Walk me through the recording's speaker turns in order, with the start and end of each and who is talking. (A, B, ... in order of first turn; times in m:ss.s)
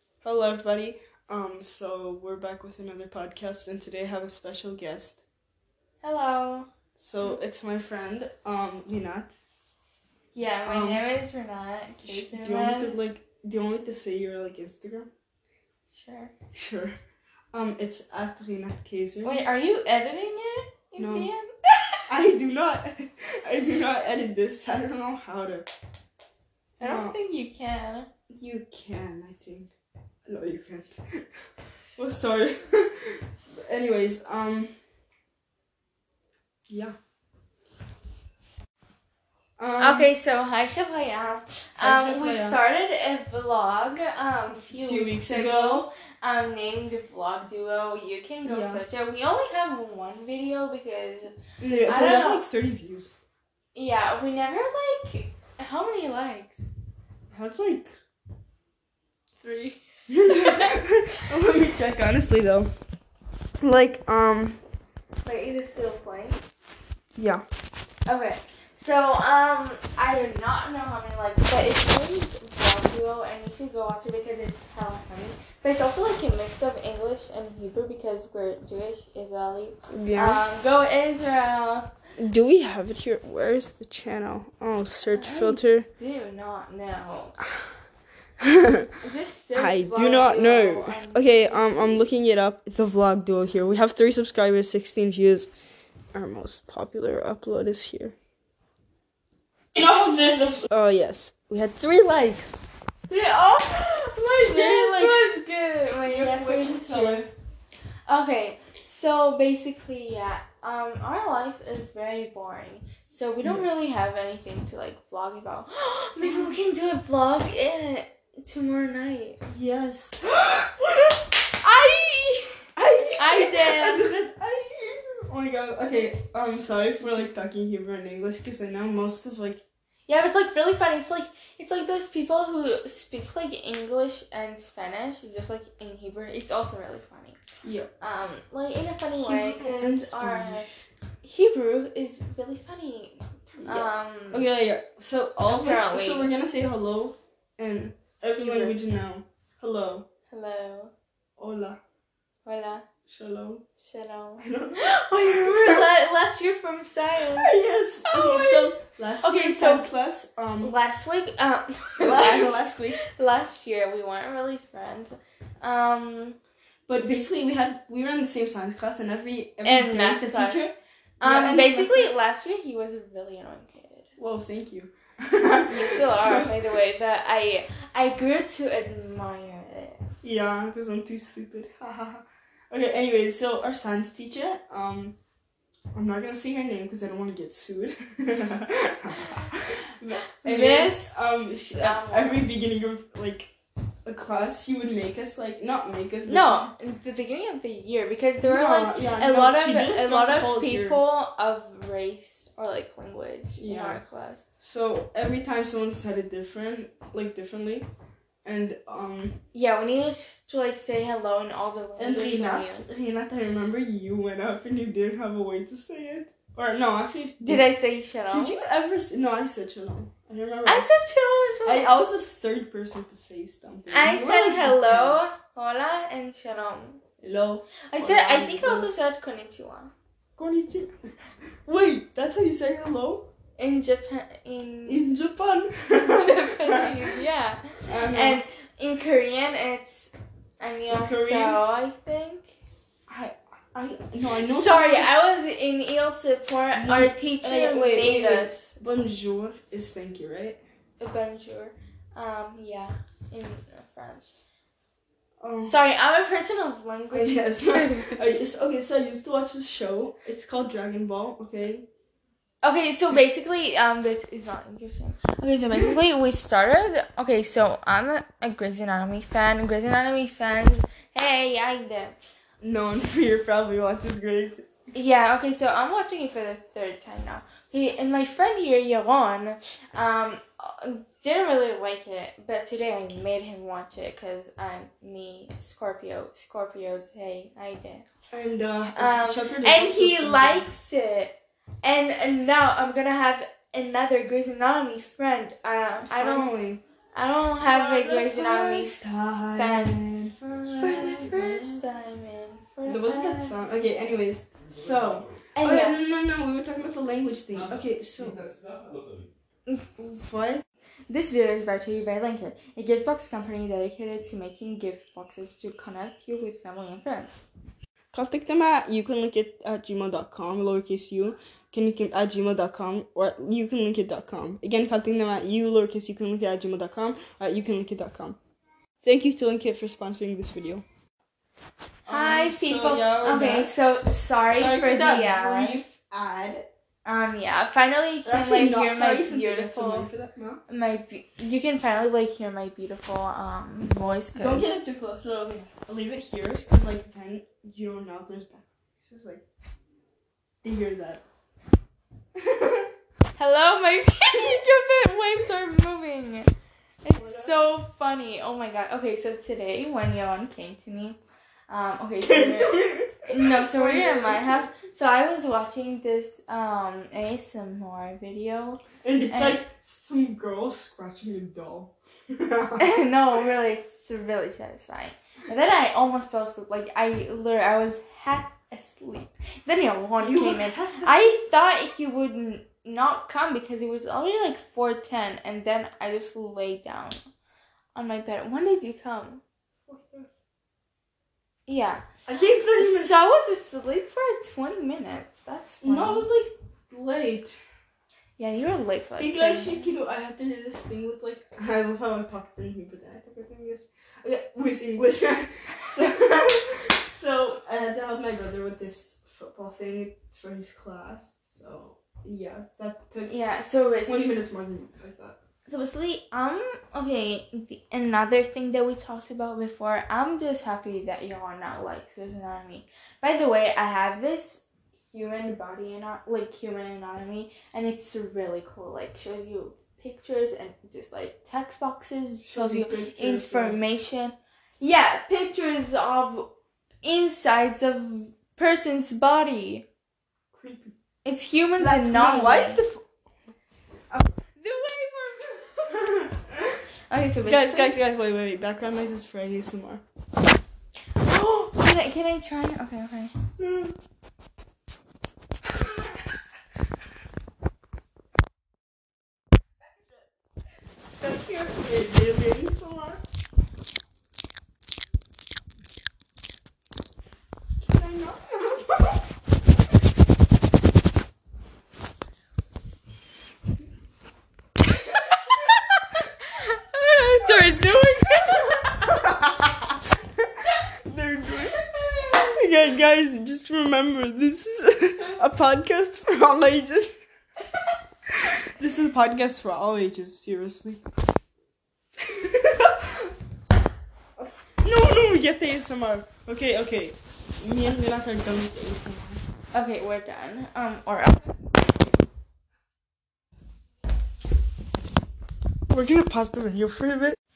0:00.2-0:05.2 A
0:06.0-0:06.7 B
0:07.0-0:09.3 A
0:10.3-0:13.0 B
0:10.6-0:11.0 A
0:12.0-0:15.1 A
0:15.9-0:16.3 B
0:16.5-0:17.0 A
0:17.5-0:19.4 A
0:19.2-0:22.0 B
0:21.0-0:21.3 A
0:22.1-0:25.7 A
0:26.8-0:28.1 B
0:26.8-0:27.2 A
0:28.3-0:29.7 A
0:30.2-0:31.2 A
0:32.0-0:34.7 A
0:36.7-0:37.0 A
0:39.6-0:40.1 A
0:39.8-0:52.4 B
0:41.8-0:42.6 A
0:44.8-0:45.8 A
0:48.4-0:48.8 A
0:51.6-0:53.1 A
0:53.7-0:56.7 B
0:57.3-0:57.9 A
0:59.4-1:00.8 B
1:00.1-1:02.7 A
1:03.6-1:04.6 A
1:05.2-1:06.4 B
1:07.2-1:07.4 A
1:08.1-1:21.9 B
1:19.9-1:20.4 A
1:22.2-1:25.9 A
1:25.1-1:27.4 B
1:28.4-1:28.9 A
1:29.0-1:32.1 B
1:29.5-1:35.5 A
1:36.1-1:38.2 A
1:39.8-1:42.6 A
1:43.1-1:47.3 B
1:44.3-1:45.3 A
1:46.0-1:47.3 A
1:48.1-1:59.4 B
1:56.2-1:56.5 A
1:59.5-2:01.1 A
2:01.6-2:02.6 B
2:02.8-2:09.6 A
2:03.2-2:04.1 B
2:10.1-2:17.4 B
2:17.6-2:17.9 A
2:18.0-2:20.7 B
2:19.2-2:20.8 A
2:21.2-2:24.5 B
2:23.5-2:30.0 A
2:25.5-2:26.3 B
2:28.3-2:28.8 B
2:30.3-2:30.9 B
2:31.4-2:31.8 A
2:32.4-2:32.8 B
2:33.1-2:33.6 A
2:33.8-2:37.5 B
2:34.4-2:35.8 A
2:37.2-2:40.8 A
2:38.1-2:39.9 B
2:40.6-2:46.4 B
2:42.0-2:43.0 A
2:46.9-2:52.2 A
2:49.6-2:50.7 B
2:51.2-2:54.1 B
2:54.2-2:56.5 A
2:55.7-3:00.1 B
3:00.2-3:05.2 A
3:05.9-3:13.5 A
3:10.4-3:12.5 B
3:14.1-3:16.7 A
3:16.3-3:24.4 B
3:18.4-3:21.0 A
3:23.6-3:24.0 A
3:24.6-3:27.9 A
3:28.4-3:29.4 A
3:29.5-3:32.8 B
3:32.0-3:37.7 A
3:37.4-3:38.6 B
3:38.3-3:40.9 A
3:40.7-3:41.9 B
3:41.6-3:45.3 A
3:43.9-3:47.0 B
3:47.2-3:49.1 A
3:47.9-3:49.9 B
3:50.4-3:50.9 A
3:51.7-3:53.3 A
3:53.6-3:55.0 B
3:54.9-3:56.9 A
3:55.9-4:02.6 B
3:57.9-3:58.4 A
4:00.9-4:01.6 A
4:03.1-4:05.1 A
4:04.4-4:08.7 B
4:06.8-4:10.6 A
4:11.0-4:14.3 B
4:15.4-4:15.8 A
4:15.6-4:18.2 B
4:17.1-4:21.8 A
4:22.6-4:32.2 B
4:32.6-4:34.7 A
4:34.9-4:48.0 B
4:48.3-4:50.7 A
4:49.0-4:56.5 B
4:56.1-4:56.8 A
4:57.1-4:58.9 B
4:57.6-5:01.8 A
4:59.5-5:00.0 B
5:00.6-5:03.6 B
5:02.8-5:08.5 A
5:05.6-5:06.0 B
5:10.0-5:10.6 A
5:11.1-5:17.5 B
5:18.1-5:28.4 A
5:29.0-5:30.8 A
5:32.0-5:35.8 B
5:32.1-5:33.7 A
5:34.5-5:36.6 A
5:37.0-5:40.1 B
5:38.2-5:40.6 A
5:40.7-5:44.7 B
5:44.3-5:49.4 A
5:50.6-5:51.2 A
5:52.4-5:52.9 A
5:53.4-5:56.5 B
5:57.0-6:01.2 B
5:57.1-5:57.5 A
6:01.7-6:09.6 B
6:02.2-6:04.7 A
6:09.0-6:13.0 A
6:12.8-6:27.2 B
6:20.2-6:21.3 A
6:27.9-6:29.4 B
6:29.9-6:30.3 A
6:31.7-6:32.0 B
6:32.2-6:33.2 A
6:32.8-6:36.2 B
6:35.8-6:37.5 A
6:38.4-6:39.9 B
6:39.2-6:53.3 A
6:53.3-6:54.2 B
6:54.0-6:55.4 A
6:55.6-7:16.5 B
7:12.4-7:13.8 A
7:17.0-7:19.8 B
7:20.5-7:20.9 A
7:21.2-7:22.8 B
7:21.8-7:23.0 A
7:24.6-7:26.3 B
7:27.1-7:28.0 B
7:27.4-7:30.0 A
7:31.2-7:33.3 B
7:33.6-7:34.0 A
7:35.7-7:36.2 A
7:39.9-7:40.2 A
7:41.2-7:43.2 A
7:47.8-7:49.2 A
7:56.6-7:59.3 B
7:59.1-7:59.6 A
8:01.0-8:07.1 A
8:01.8-8:02.5 B
8:08.4-8:11.0 A
8:12.2-8:13.3 A
8:14.4-8:19.4 A
8:19.7-8:21.6 B
8:25.9-8:27.4 A